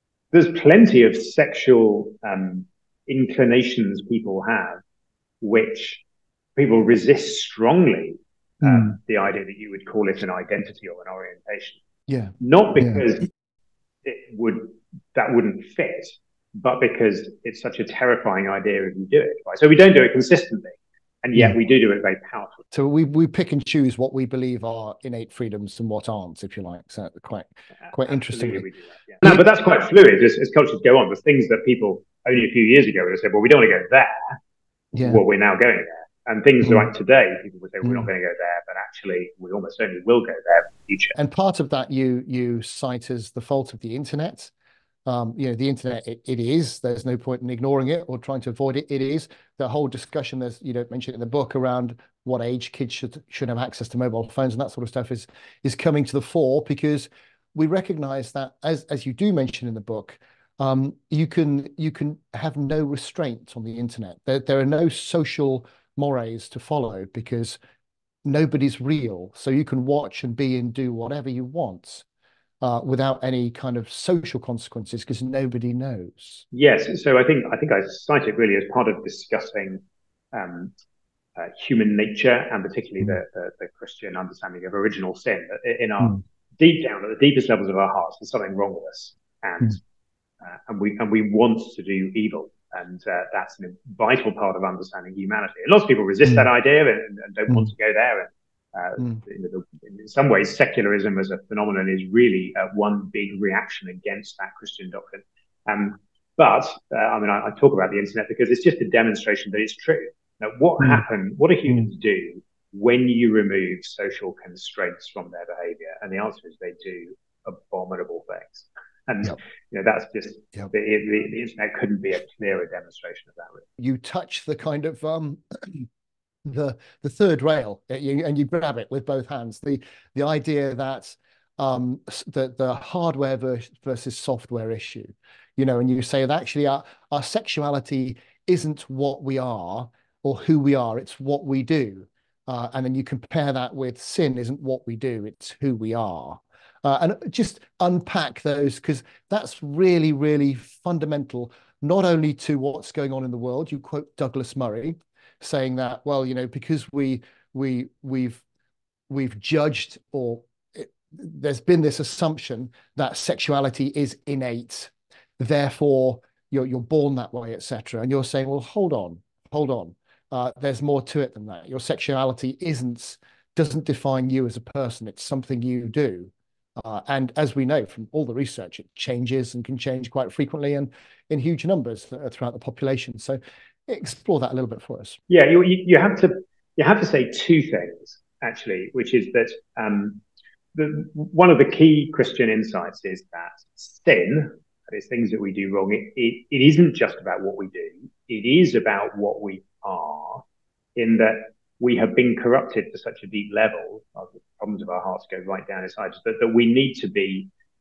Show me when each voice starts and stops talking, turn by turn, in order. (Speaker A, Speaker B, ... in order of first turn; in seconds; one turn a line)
Speaker A: 0.3-4.8
Speaker A: 5.4-6.0
Speaker A: 6.5-11.8
Speaker B: 12.1-13.0
Speaker A: 12.4-13.3
Speaker A: 14.0-22.6
Speaker B: 22.7-28.6
Speaker A: 27.9-34.4
Speaker B: 34.9-35.2
Speaker A: 35.0-41.1
Speaker B: 41.1-44.5
Speaker B: 45.0-67.6
Speaker B: 68.2-72.0
Speaker B: 72.6-76.4
Speaker A: 76.5-80.7
Speaker A: 81.4-89.8
Speaker A: 90.4-123.7
Speaker B: 123.8-125.9
Speaker B: 126.4-158.4
Speaker B: 159.1-185.2
Speaker A: 185.3-190.2
Speaker A: 190.7-200.4
Speaker A: 200.9-207.5